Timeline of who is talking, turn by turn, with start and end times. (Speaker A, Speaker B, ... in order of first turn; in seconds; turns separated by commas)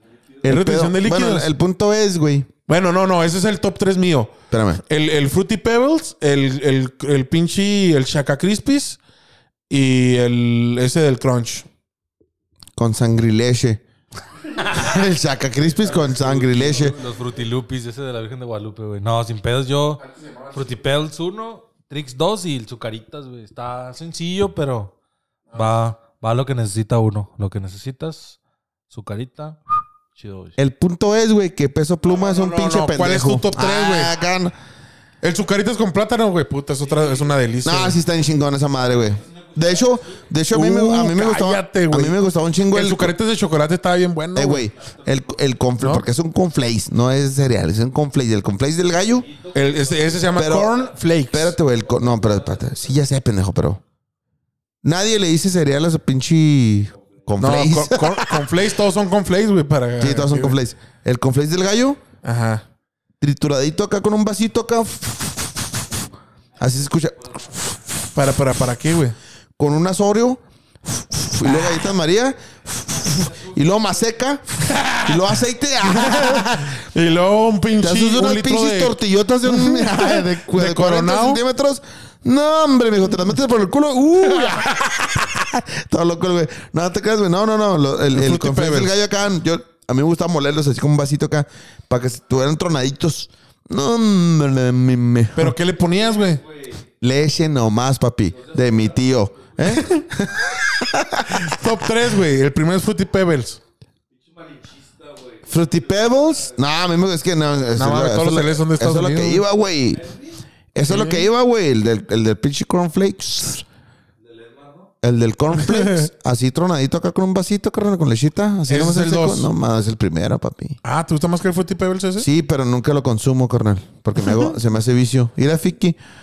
Speaker A: 0.1-0.5, Speaker B: 0.4-2.5, Speaker C: 0.5-1.5, Speaker C: 2.7-9.0, Speaker B: 4.5-4.8, Speaker C: 9.7-11.7, Speaker B: 12.8-13.8, Speaker B: 14.7-16.9, Speaker A: 15.8-20.0, Speaker C: 20.0-20.8, Speaker A: 20.5-24.9, Speaker A: 25.5-28.4, Speaker A: 28.9-29.6, Speaker A: 30.1-30.5, Speaker B: 30.6-34.5, Speaker C: 32.1-34.1, Speaker C: 35.2-38.0, Speaker A: 37.0-37.3, Speaker B: 37.6-43.1, Speaker A: 38.8-40.2, Speaker C: 40.5-42.1, Speaker C: 42.7-44.6, Speaker B: 44.3-49.3, Speaker A: 44.7-45.3, Speaker C: 45.8-46.0, Speaker A: 49.2-50.9, Speaker C: 49.5-51.5, Speaker B: 50.3-50.7, Speaker B: 51.3-53.8, Speaker A: 51.8-52.9, Speaker B: 54.8-58.5, Speaker C: 57.4-60.6, Speaker B: 60.0-62.0, Speaker C: 62.2-62.6, Speaker B: 63.2-65.8, Speaker B: 66.6-67.8, Speaker A: 67.2-67.5, Speaker C: 68.1-69.2, Speaker B: 69.6-76.7, Speaker A: 73.0-73.6, Speaker C: 74.6-75.3, Speaker C: 75.8-81.4, Speaker B: 77.8-95.5, Speaker C: 88.1-88.9, Speaker C: 95.3-96.4, Speaker A: 95.9-96.8, Speaker B: 97.0-101.7, Speaker A: 98.3-100.2, Speaker C: 101.3-103.6, Speaker A: 104.1-106.6, Speaker B: 105.5-110.0, Speaker C: 107.8-109.4, Speaker A: 109.9-110.4, Speaker B: 110.7-113.6, Speaker C: 110.8-111.3, Speaker A: 114.2-114.9, Speaker B: 115.0-120.8, Speaker C: 115.5-116.1, Speaker C: 118.7-119.5, Speaker C: 120.8-122.3, Speaker B: 122.2-126.0